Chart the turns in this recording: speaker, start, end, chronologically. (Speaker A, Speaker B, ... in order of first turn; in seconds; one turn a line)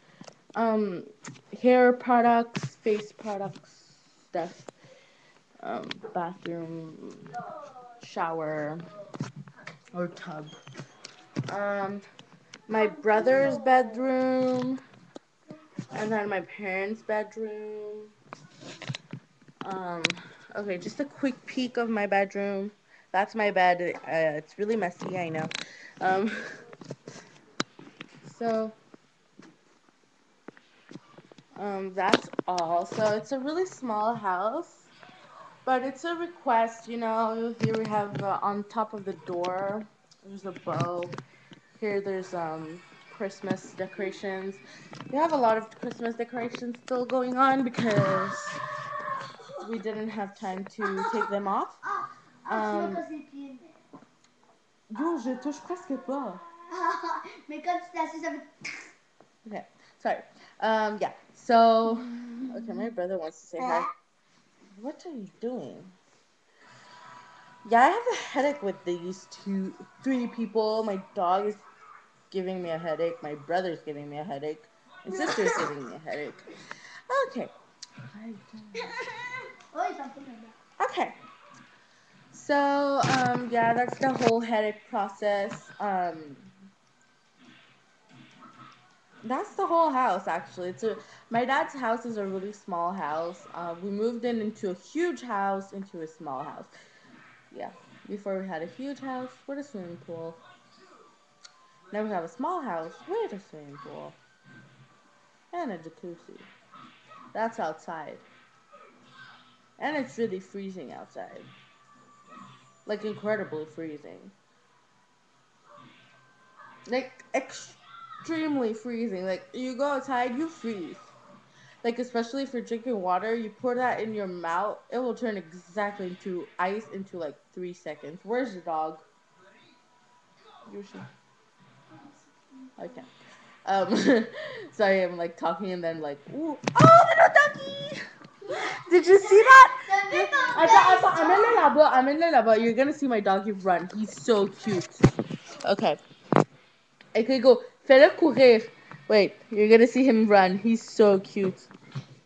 Speaker A: 0.6-4.7
Speaker A: 5.6-7.3
Speaker A: 8.0-8.8
Speaker A: 9.9-10.6
Speaker A: 11.5-12.0
Speaker A: 12.7-14.8
Speaker A: 15.9-18.1
Speaker A: 19.6-26.4
Speaker A: 28.2-28.8
Speaker A: 31.6-34.9
Speaker A: 35.6-41.2
Speaker A: 41.8-48.6
Speaker A: 49.6-51.8
Speaker B: 50.8-51.3
Speaker B: 51.8-53.8
Speaker A: 52.5-53.0
Speaker A: 54.9-56.4
Speaker B: 56.7-58.5
Speaker A: 59.5-63.9
Speaker A: 64.7-66.0
Speaker A: 67.7-71.6
Speaker A: 72.3-76.5
Speaker A: 77.1-77.5
Speaker A: 78.1-79.0
Speaker B: 79.0-80.6
Speaker A: 80.8-81.2
Speaker A: 82.3-86.5
Speaker A: 89.2-96.7
Speaker A: 97.5-100.4
Speaker A: 101.9-104.2
Speaker A: 105.5-106.5
Speaker A: 107.3-108.2
Speaker A: 109.8-111.5
Speaker A: 112.9-114.3
Speaker A: 116.9-121.1
Speaker A: 121.8-129.1
Speaker A: 130.7-131.1
Speaker B: 131.9-132.9
Speaker A: 132.8-133.1
Speaker A: 133.7-138.0
Speaker B: 138.4-141.7
Speaker A: 138.5-145.0
Speaker A: 145.6-146.0
Speaker A: 147.1-151.7